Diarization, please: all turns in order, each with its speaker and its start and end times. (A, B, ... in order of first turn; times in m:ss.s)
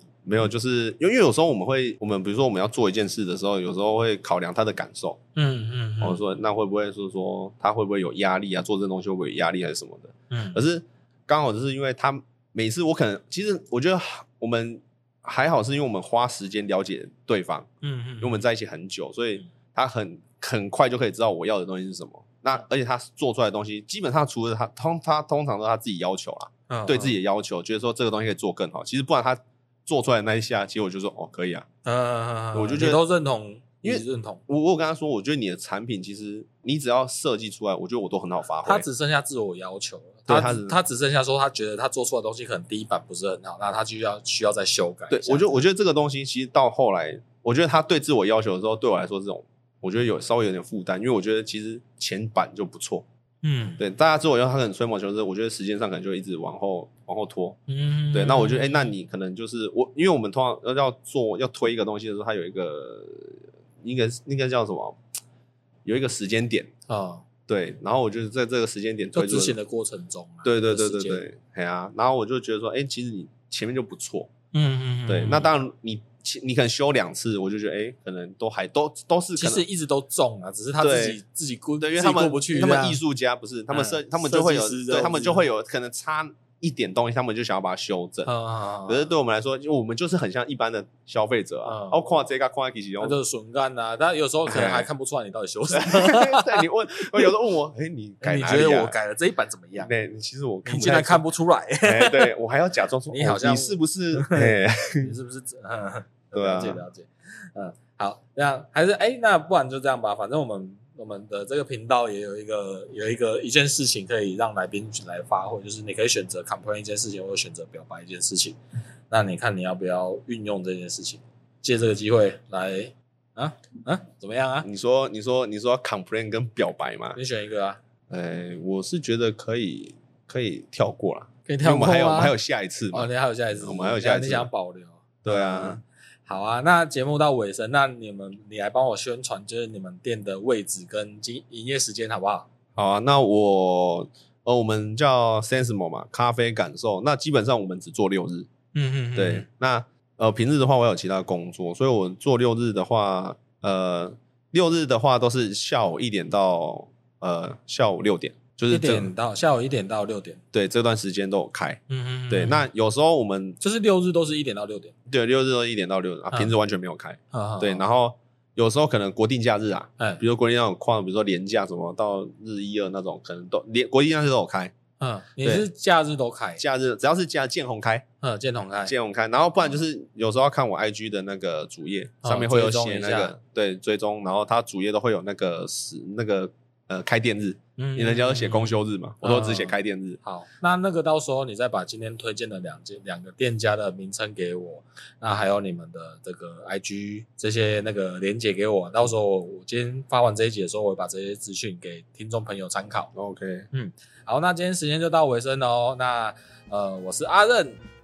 0:00.2-0:05.2 A
0:05.4-0:06.2 B
0:06.0-0:17.7 A
0:10.3-0:10.6 B
0:17.8-0:18.4 B
0:18.2-0:31.7 A
0:26.7-0:27.2 B
0:31.8-0:34.4 B
0:32.5-0:33.0 A
0:33.8-0:38.9 A
0:38.6-0:45.6 B
0:40.3-0:40.8 A
0:45.1-0:53.1 A
0:53.4-0:53.8 B
0:53.8-0:57.6 A
0:57.7-0:58.9 B
0:58.1-1:05.0 A
1:05.8-1:06.7 A
1:06.9-1:07.2 B
1:07.5-1:09.6 A
1:09.1-1:11.3 B
1:10.4-1:14.3 A
1:14.5-1:15.5 B
1:15.1-1:19.6 A
1:19.4-1:23.0 B
1:20.8-1:21.2 A
1:21.8-1:28.3 A
1:23.7-1:25.4 B
1:28.3-1:29.1 B
1:28.9-1:33.2 A
1:31.6-1:32.0 B
1:33.0-1:37.3 B
1:34.5-1:34.9 A
1:35.7-1:39.0 A
1:38.2-1:39.9 B
1:39.8-1:41.3 A
1:40.6-1:42.4 B
1:41.8-1:45.1 A
1:43.1-1:58.6 B
1:46.3-1:46.8 A
1:59.1-2:04.7 B
2:04.6-2:07.2 A
2:07.2-2:07.8 B
2:08.1-2:14.5 A
2:11.5-2:12.4 B
2:12.9-2:22.5 B
2:15.2-2:15.8 A
2:22.8-2:28.5 A
2:28.7-2:29.5 B
2:29.2-2:39.1 A
2:38.7-2:40.4 B
2:40.5-2:43.6 A
2:41.9-2:42.7 B
2:43.6-2:44.9 B
2:45.1-2:54.7 A
2:47.3-2:47.9 B
2:55.0-2:56.6 B
2:56.6-2:58.1 A
2:58.2-2:58.9 B
2:58.9-3:10.2 A
3:02.2-3:03.4 B
3:07.8-3:23.1 B
3:23.2-3:23.7 A
3:23.7-3:27.8 B